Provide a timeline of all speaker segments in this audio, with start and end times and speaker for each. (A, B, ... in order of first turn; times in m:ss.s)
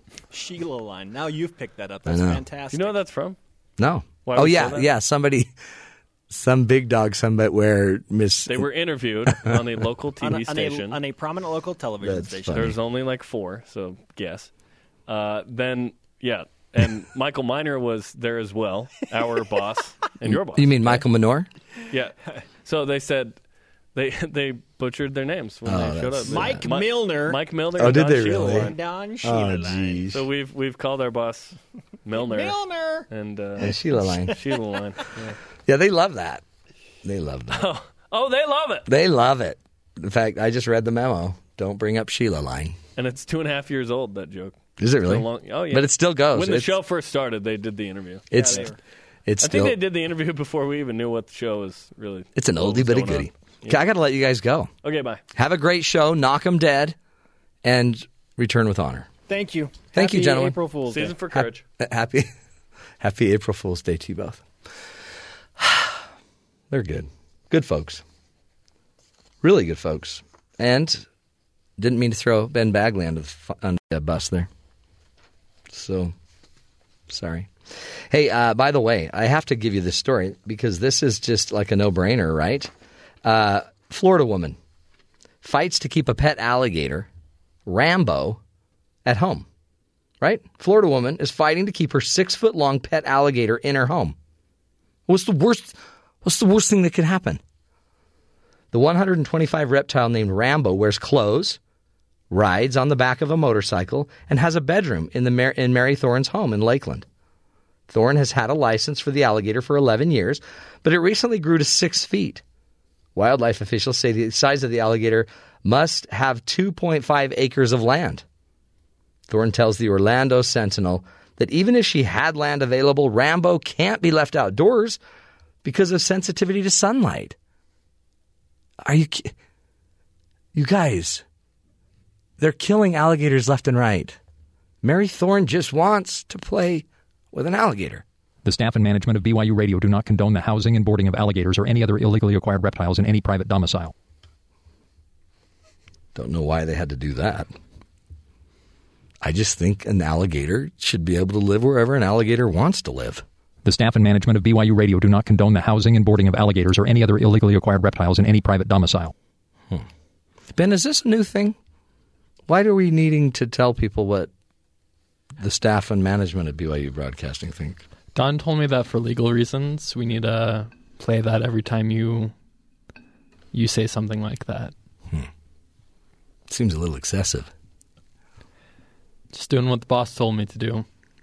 0:00.3-0:03.0 A
0:02.1-0:02.4 B
0:02.7-0:03.4 C
0:03.8-0:05.5 B
0:04.2-0:04.9 C
0:06.3-0:08.7 B
0:08.5-0:11.0 C
0:09.3-0:09.6 B
0:10.2-0:12.7 A
0:12.0-0:12.8 B
0:12.5-0:14.5 C
0:15.1-0:21.1 C
0:20.2-0:21.5 B
0:21.9-0:23.4 C
0:23.9-0:28.8 C
0:25.6-0:26.7 B
0:26.3-0:30.0 A
0:27.8-0:30.3 B
0:30.1-0:32.6 C
0:32.1-0:33.1 A
0:33.1-0:35.4 C
0:33.6-0:34.4 B
0:35.7-0:36.4 B
0:37.0-0:37.6 B
0:37.5-0:38.9 C
0:38.9-0:42.8 B
0:43.0-0:48.7 C
0:44.8-0:46.8 B
0:48.3-0:48.7 B
0:48.3-0:48.8 A
0:49.3-0:49.8 B
0:49.4-0:53.8 C
0:52.4-0:54.7 B
0:54.8-0:55.2 C
0:55.3-0:57.0 B
0:57.6-0:59.1 B
0:59.3-1:01.2 A
0:59.9-1:00.6 B
1:00.8-1:01.6 C
1:01.3-1:02.3 B
1:03.0-1:04.4 B
1:05.6-1:06.0 B
1:06.7-1:08.0 B
1:09.4-1:11.0 B
1:11.8-1:14.5 B
1:15.7-1:16.1 B
1:17.1-1:17.5 B
1:18.1-1:22.7 B
1:23.2-1:24.6 B
1:25.4-1:27.1 B
1:27.7-1:28.4 B
1:29.1-1:29.4 B
1:30.2-1:34.2 B
1:35.1-1:37.4 B
1:38.7-1:41.6 B
1:42.3-1:47.1 B
1:47.9-1:52.4 B
1:53.2-1:58.2 B
1:59.3-2:05.0 B
2:05.6-2:07.4 B
2:08.8-2:09.3 B
2:10.5-2:11.2 B
2:12.4-2:14.2 B
2:14.8-2:18.0 B
2:18.4-2:23.9 D
2:26.2-2:27.5 B
2:29.2-2:33.2 B
2:33.7-2:39.1 D
2:40.6-2:41.6 B
2:42.5-2:44.3 B
2:45.4-2:47.8 B
2:48.2-2:52.3 E
2:53.5-2:54.7 E
2:56.5-2:57.5 B
2:59.3-3:00.8 E